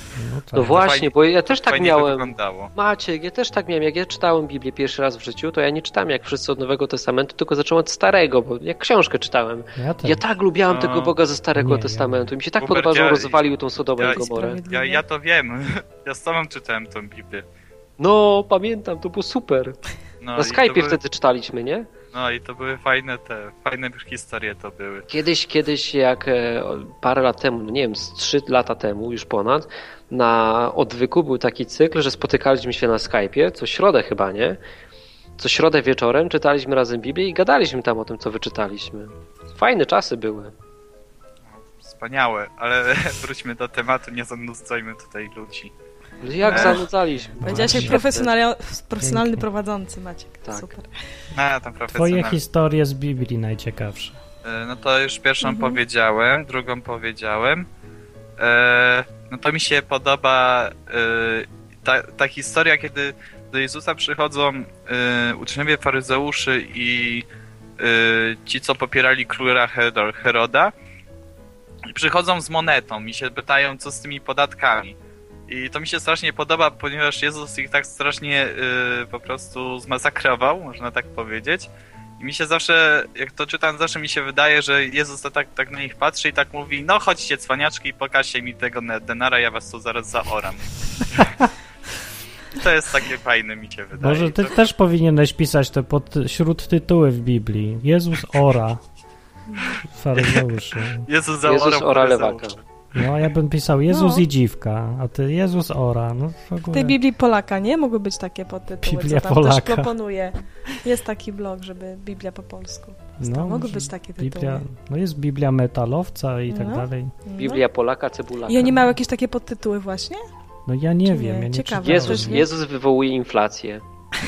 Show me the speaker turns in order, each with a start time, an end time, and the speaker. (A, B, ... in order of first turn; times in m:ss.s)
0:00.2-0:00.8 A
0:00.6-0:14.6 B
0:00.6-0:02.7 C
0:09.8-0:10.3 A
0:10.7-0:11.2 C
0:11.5-0:12.3 A
0:12.6-0:17.4 C
0:14.0-0:15.0 D
0:18.0-0:19.8 B
0:20.2-0:21.0 C
0:20.4-0:21.9 B
0:22.1-0:25.0 C
0:25.1-0:34.6 B
0:35.4-0:40.5 B
0:41.6-0:45.7 C
0:46.2-0:48.3 B
0:46.4-0:46.8 D
0:46.5-0:46.8 C
0:47.4-0:50.9 D
0:47.4-0:48.0 A
0:49.0-0:49.4 A
0:51.3-0:52.4 C
0:51.9-0:54.2 A
0:54.4-0:57.7 C
0:55.4-0:55.8 D
0:58.4-1:07.3 C
1:07.8-1:10.7 C
1:11.9-1:15.0 C
1:15.5-1:21.7 C
1:22.2-1:31.3 C
1:32.5-1:34.6 C
1:34.0-1:38.8 A
1:39.8-1:41.0 A
1:40.2-1:40.4 C
1:41.0-1:42.6 C
1:41.4-1:42.6 B
1:42.9-1:47.0 A
1:43.9-1:44.2 D
1:46.7-1:54.6 D
1:48.8-1:49.9 A
1:53.2-1:57.1 A
1:56.5-1:57.6 D
1:57.4-1:58.9 B
1:58.5-2:00.2 D
2:00.6-2:02.5 A
2:01.0-2:02.5 D
2:01.8-2:03.8 B